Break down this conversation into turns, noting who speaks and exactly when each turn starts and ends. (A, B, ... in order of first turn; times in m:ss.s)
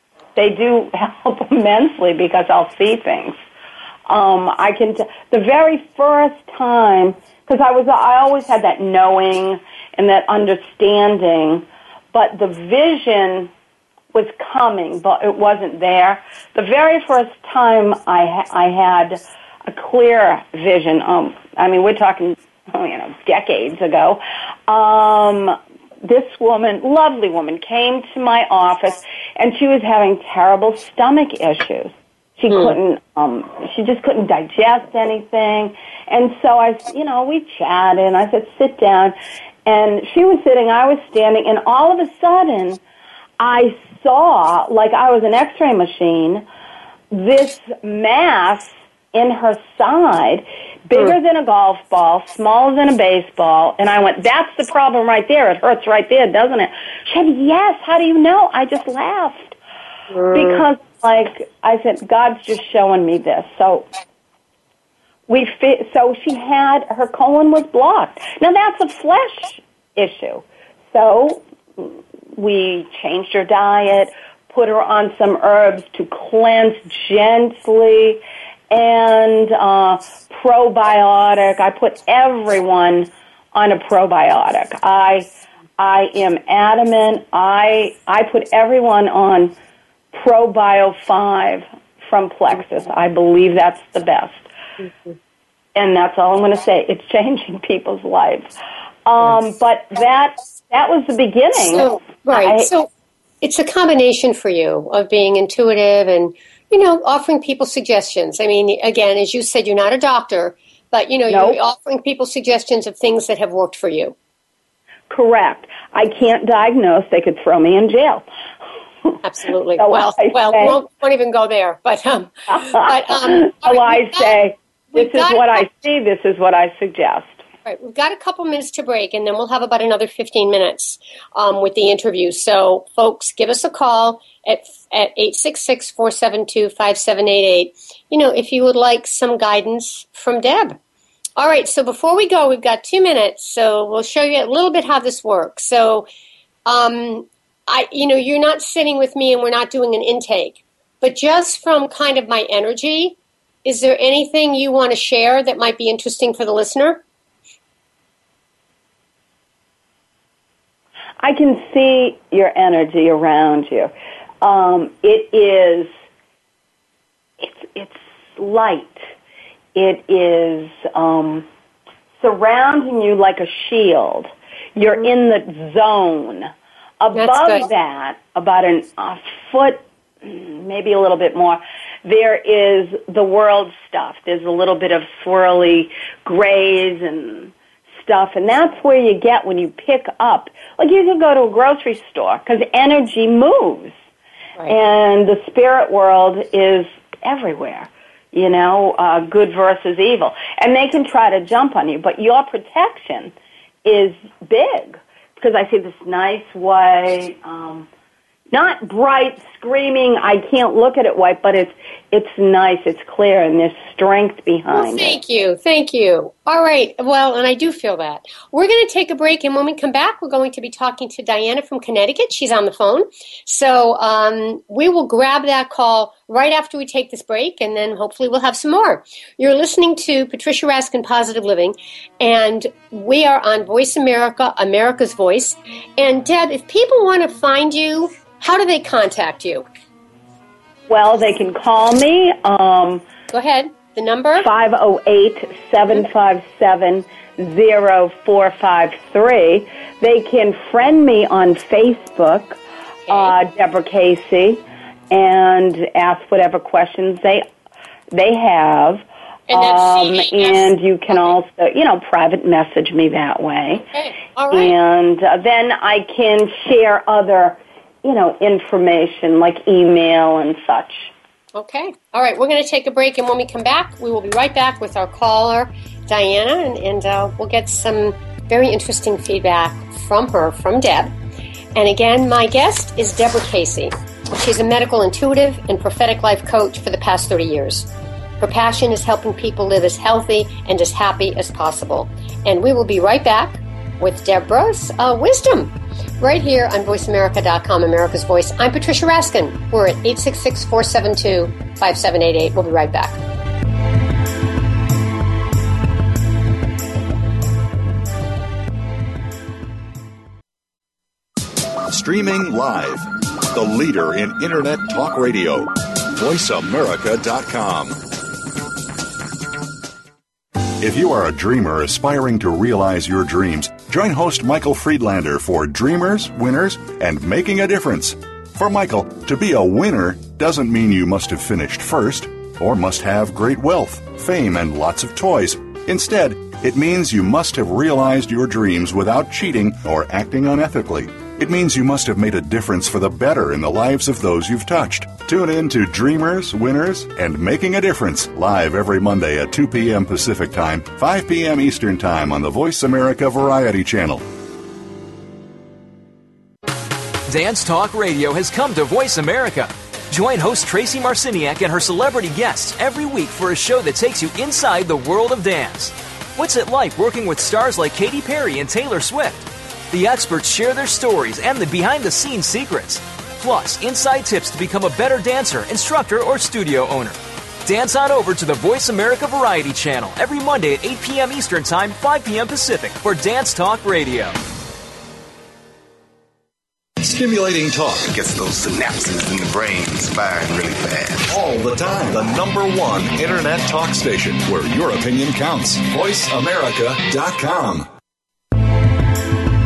0:00.4-0:03.4 A
0:04.1-0:13.5 A
0:14.1-0:39.1 A
0:32.5-0:32.8 B
0:39.6-0:42.8 A
0:43.4-0:46.4 A
0:47.1-0:59.6 A
1:00.1-1:00.6 B
1:00.3-1:03.9 A
1:05.3-1:29.5 A
1:30.1-1:34.5 A
1:35.7-1:38.5 A
1:39.0-1:42.7 A
1:41.6-1:42.9 B
1:43.4-1:54.1 B
1:51.3-1:51.6 A
1:55.1-1:58.2 A
1:59.2-2:04.4 B
1:59.8-2:00.8 A
2:02.5-2:07.4 A
2:04.9-2:05.7 B
2:07.6-2:20.8 B
2:21.4-2:26.1 B
2:26.6-2:37.0 B
2:41.2-2:45.9 A
2:47.4-2:49.1 A
2:49.7-2:51.5 A
2:52.2-3:13.9 A
2:57.1-2:57.7 B
3:14.7-3:23.3 A
3:23.8-3:27.9 A
3:28.5-3:35.2 A
3:34.7-3:59.6 B
4:00.9-4:03.0 A
4:03.3-4:04.5 B
4:04.4-4:17.4 A
4:13.1-4:13.3 B
4:18.1-4:23.8 A
4:19.5-4:21.4 B
4:23.9-4:24.8 B
4:24.5-4:31.1 A
4:31.5-4:41.1 B
4:41.7-4:47.9 B
4:48.4-5:03.2 B
5:11.8-5:18.0 C
5:20.8-5:54.2 C
5:57.3-6:24.4 D
6:27.0-6:28.2 C
6:28.1-6:31.2 E
6:31.2-6:37.9 C